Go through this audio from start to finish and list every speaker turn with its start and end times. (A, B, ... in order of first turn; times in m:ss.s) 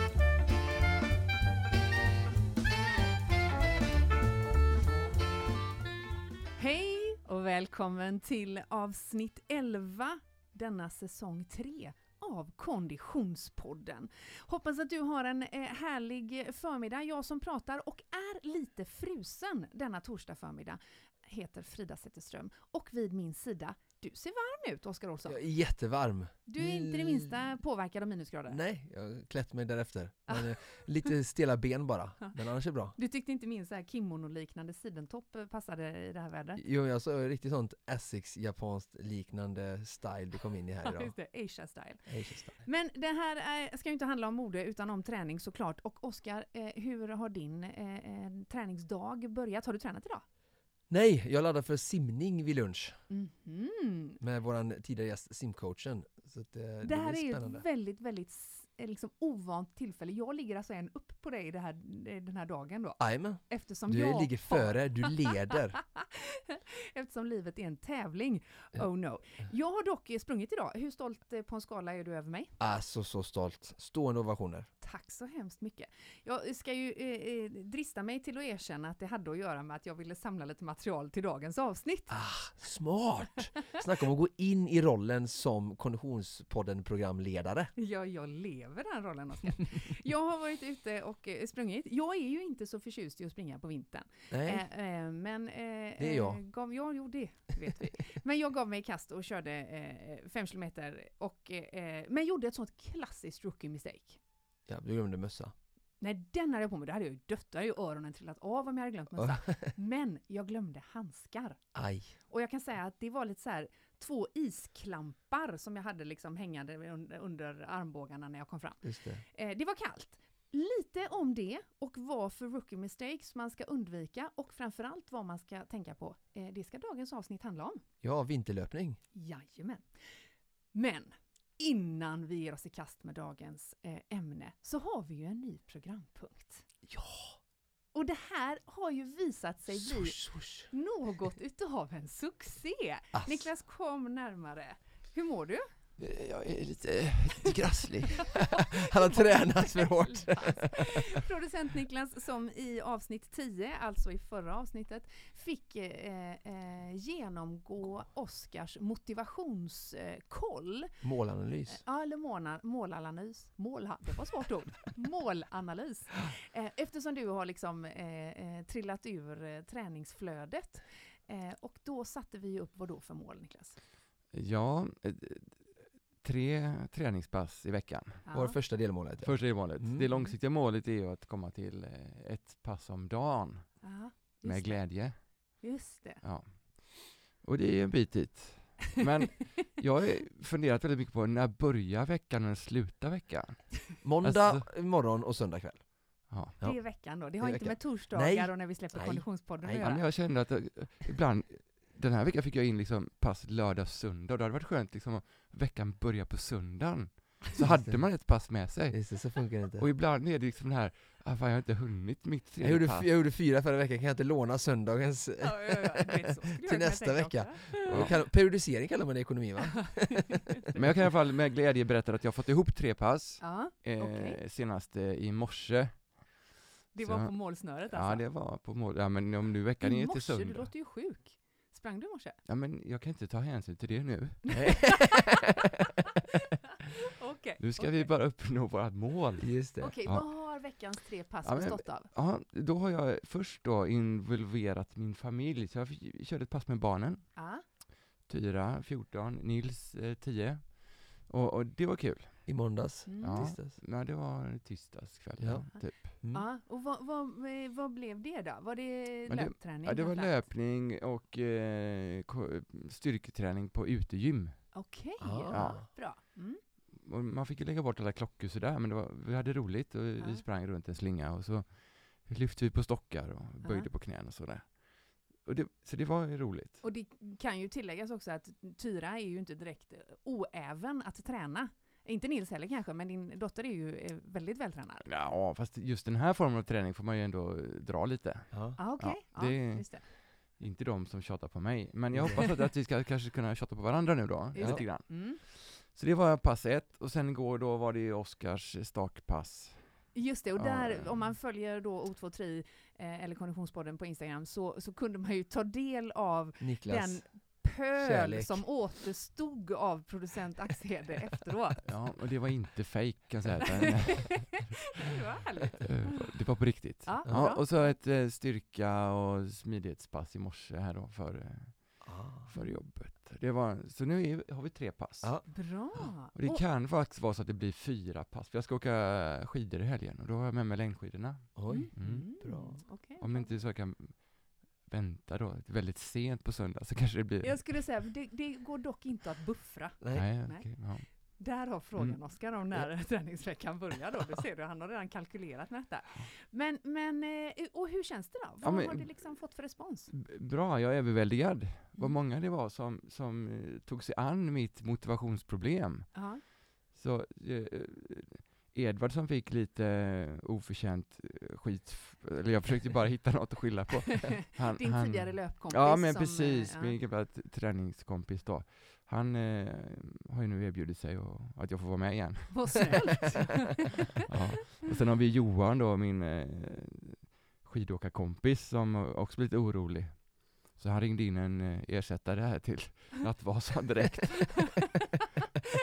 0:06.6-0:25.4 A
0:25.3-0:27.3 B
0:26.5-0:28.6 A
0:28.5-0:33.0 B
0:30.3-0:30.8 A
0:33.0-0:36.6 A
0:36.6-0:41.1 B
0:40.8-0:50.2 A
0:42.1-0:42.6 B
0:50.9-0:53.0 B
0:53.1-0:54.2 A
0:54.2-0:57.6 B
0:56.8-1:12.6 A
1:03.0-1:05.8 B
1:12.6-1:14.7 B
1:14.8-1:22.2 A
1:22.1-1:27.7 B
1:27.8-1:44.2 A
1:34.3-1:34.6 B
1:36.0-1:36.4 B
1:44.7-1:45.5 B
1:46.0-2:07.8 A
1:49.2-1:49.7 B
1:51.8-1:52.2 B
1:58.8-1:59.2 B
2:08.0-2:09.0 B
2:09.1-2:16.7 A
2:16.9-2:17.4 B
2:17.9-2:25.7 A
2:19.8-2:20.7 B
2:23.1-2:23.5 B
2:26.0-2:30.8 B
2:28.4-2:41.0 A
2:41.0-2:41.8 B
2:41.7-2:53.8 A
2:54.3-2:58.2 C
2:58.3-2:58.6 A
2:58.3-3:00.1 B
2:59.2-3:05.6 C
3:03.8-3:06.2 A
3:06.2-3:14.7 C
3:14.0-3:19.8 B
3:16.3-3:16.6 C
3:16.6-3:20.4 A
3:19.8-3:33.1 C
3:28.9-3:29.9 B
3:32.6-3:40.3 B
3:35.4-3:38.1 A
3:37.9-3:38.1 C
3:39.7-3:40.8 A
3:40.8-3:46.5 C
3:43.4-3:44.4 A
3:46.9-3:48.3 A
3:47.0-3:50.7 C
3:49.8-3:52.4 A
3:52.5-3:54.8 C
3:54.5-3:55.4 A
3:54.5-3:55.5 B
3:57.2-3:58.1 A
3:57.6-4:12.7 C
3:59.4-4:00.0 B
3:59.8-4:02.1 A
4:07.4-4:07.6 A
4:12.5-4:13.8 B
4:13.1-4:13.5 A
4:13.2-4:16.1 C
4:15.4-4:16.5 B
4:15.7-4:20.5 A
4:19.3-4:24.9 C
4:24.7-4:26.6 A
4:25.2-4:25.9 B
4:25.5-4:36.8 C
4:30.2-4:30.4 A
4:33.6-4:33.9 A
4:36.8-4:45.1 A
4:45.1-5:01.3 C
4:48.5-4:48.8 B
4:48.8-4:50.1 A
4:52.1-4:52.5 B
4:54.5-4:55.4 A
4:54.6-4:54.9 B
5:00.1-5:11.9 A
5:06.6-5:08.7 B
5:11.8-5:14.9 C
5:15.0-5:16.1 A
5:15.8-5:38.1 C
5:17.0-5:18.0 A
5:22.0-5:22.5 B
5:22.5-5:22.8 A
5:25.2-5:25.5 B
5:25.5-5:26.6 A
5:31.6-5:32.8 B
5:31.7-5:33.6 A
5:37.4-5:50.1 A
5:40.0-5:40.4 B
5:40.2-5:42.3 C
5:48.6-6:13.2 C
5:56.1-5:56.4 A
6:04.6-6:07.0 A
6:12.5-6:14.0 A
6:13.8-6:25.0 C